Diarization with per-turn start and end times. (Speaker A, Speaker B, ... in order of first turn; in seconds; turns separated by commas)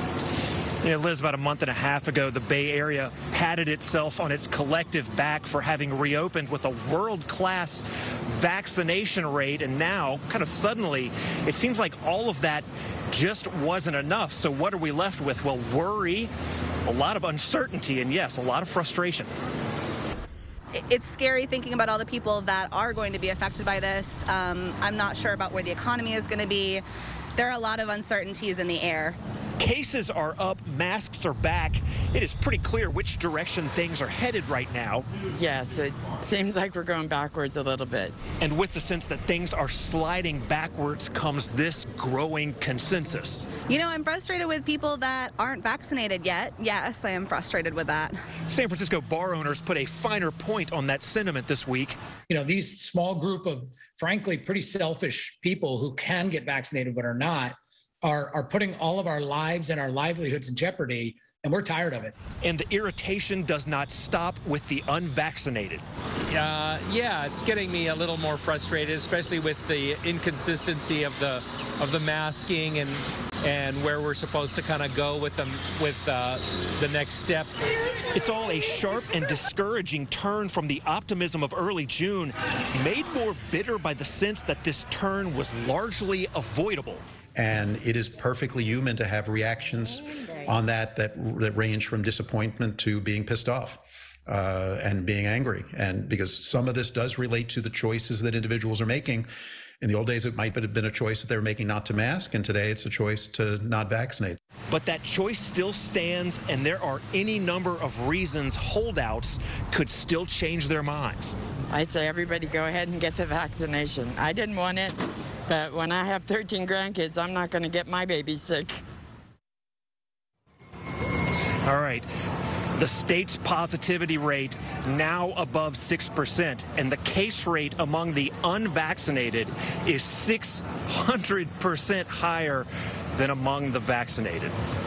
Speaker A: 0.8-16.3, Speaker A: 16.8-19.3, Speaker B: 20.7-26.8, Speaker B: 27.4-29.2, Speaker A: 29.6-35.1, Speaker C: 35.3-38.2, Speaker A: 38.4-43.5, Speaker B: 43.7-48.2, Speaker A: 48.5-52.0, Speaker D: 52.3-62.1, Speaker A: 62.4-65.8, Speaker E: 66.3-77.6, Speaker A: 78.1-87.0, Speaker F: 87.3-99.3, Speaker F: 99.8-104.4, Speaker A: 104.7-111.3, Speaker C: 111.7-118.8, Speaker A: 121.6-122.1, Speaker A: 122.7-134.5